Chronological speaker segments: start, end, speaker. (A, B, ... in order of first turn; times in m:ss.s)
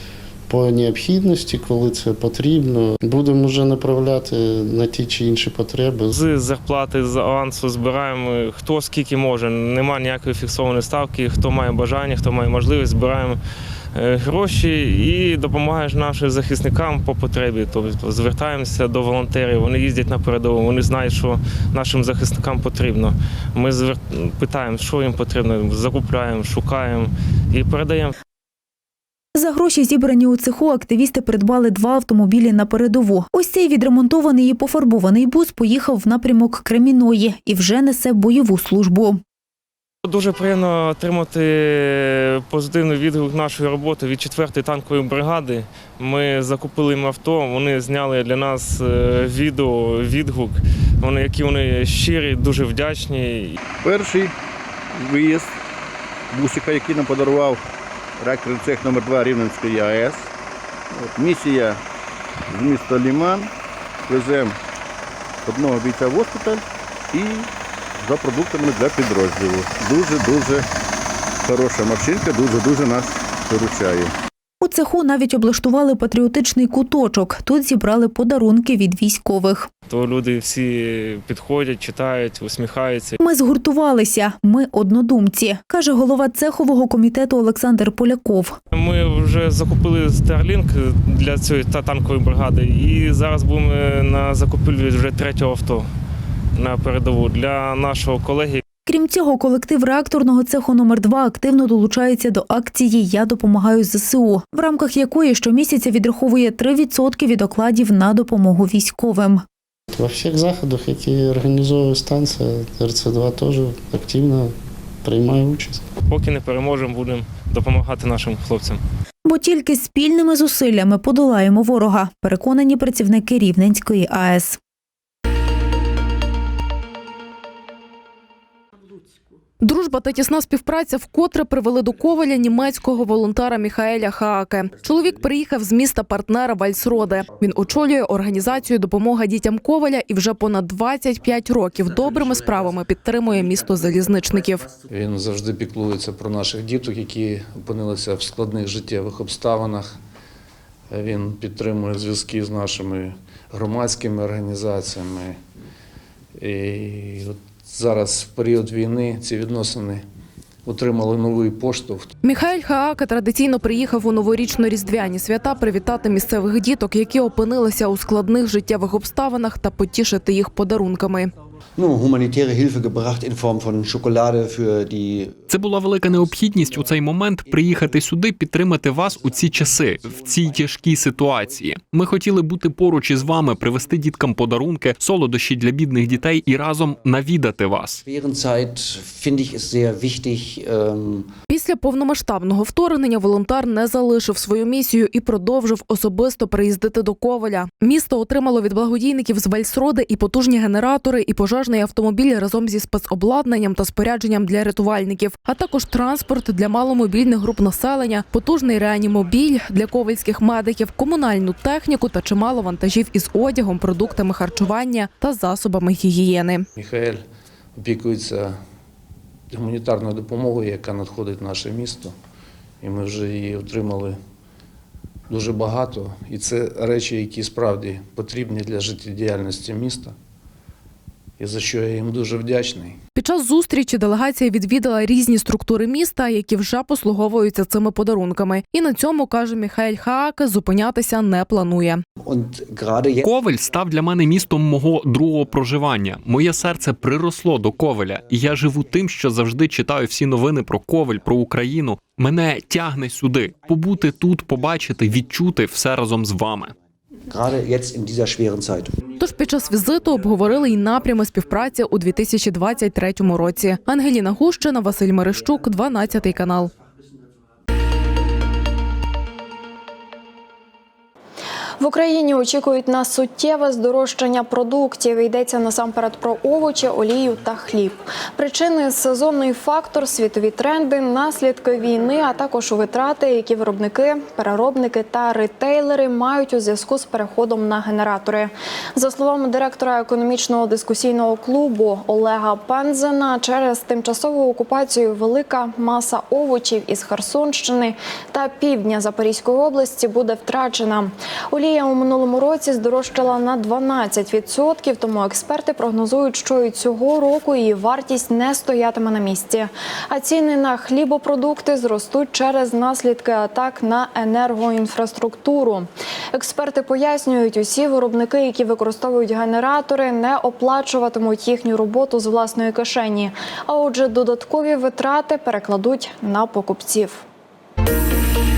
0:00.5-0:06.1 A
0:06.1-0:13.4 B
0:13.9-0:28.1 B
0:29.3-0:39.2 C
0:40.0-0:53.6 B
0:53.8-0:54.3 D
0:54.9-0:55.6 D
0:56.3-0:57.6 D
0:58.2-1:00.3 D
1:01.0-1:01.8 D
1:02.5-1:03.5 D
1:04.1-1:04.6 D
1:05.4-1:07.5 D
1:08.0-1:10.7 D
1:11.4-1:14.1 D
1:14.6-1:19.7 C
1:19.9-1:23.2 B
1:23.2-1:28.6 C
1:28.7-1:35.9 B
1:36.6-1:38.6 B
1:38.8-1:49.4 C
1:49.9-1:55.8 A
1:56.1-1:58.8 B
1:59.2-2:04.6 C
2:09.6-2:24.7 E
2:24.9-2:29.9 F
2:30.9-2:35.4 F
2:36.4-2:40.0 F
2:40.6-2:42.1 F
2:42.2-2:51.3 E
2:51.8-2:55.4 G
2:55.5-3:08.0 H
3:08.0-3:11.3 G
3:11.5-3:36.6 E
3:36.8-3:37.2 F
3:37.8-3:38.5 F
3:39.5-3:42.1 F
3:42.8-3:44.2 F
3:45.3-3:50.1 F
3:51.4-3:53.0 F
3:53.2-4:02.0 E
4:02.2-4:03.3 G
4:03.2-4:16.7 H
4:17.3-4:19.0 G
4:19.2-4:26.7 E
4:31.8-5:27.2 I